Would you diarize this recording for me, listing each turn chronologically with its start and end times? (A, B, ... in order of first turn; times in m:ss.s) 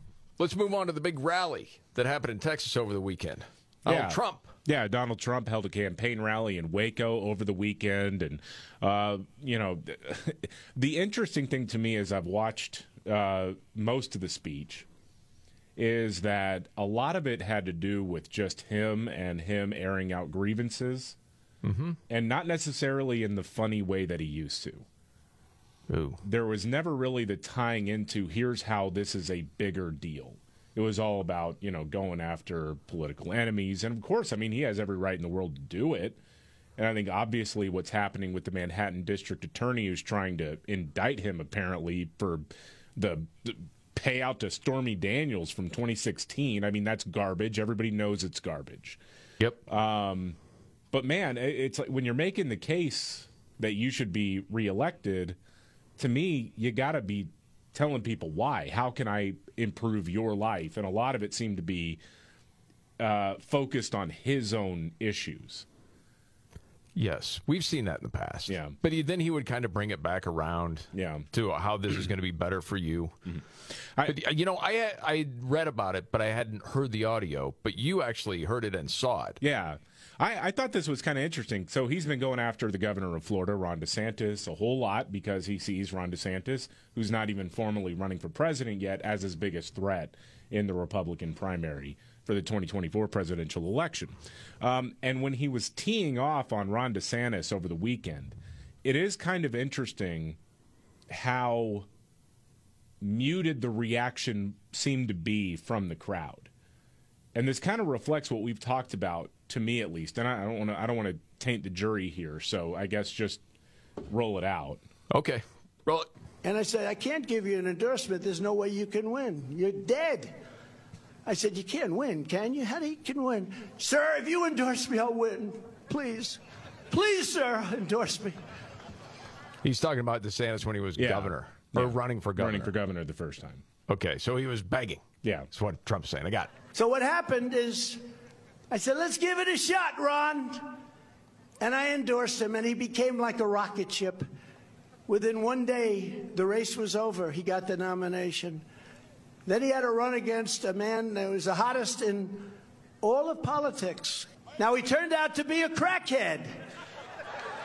0:00.4-0:04.5 A
0:03.8-0:14.8 B
0:15.8-0:21.2 B
0:21.6-0:22.0 A
0:22.1-0:24.8 B
0:25.9-0:26.2 A
0:26.2-0:36.2 B
0:36.8-0:42.4 B
0:43.0-0:49.0 B
0:49.7-0:50.4 B
0:50.9-0:55.4 B
0:56.0-1:02.0 B
1:03.0-1:05.6 B
1:07.0-1:13.1 A
1:08.5-1:08.7 B
1:10.9-1:11.2 B
1:14.0-1:19.4 A
1:19.4-1:40.4 B
1:41.1-1:41.9 B
1:43.0-1:46.5 B
1:47.3-1:53.4 B
1:54.1-1:54.8 B
1:55.1-1:56.1 A
1:56.4-2:00.4 C
2:01.2-2:06.4 C
2:06.9-2:08.4 C
2:09.6-2:12.7 A
2:11.0-2:13.6 B
2:13.9-2:16.5 A
2:16.7-2:18.0 C
2:18.7-2:20.8 C
2:21.6-2:24.3 C
2:25.1-2:28.6 C
2:29.4-2:36.6 C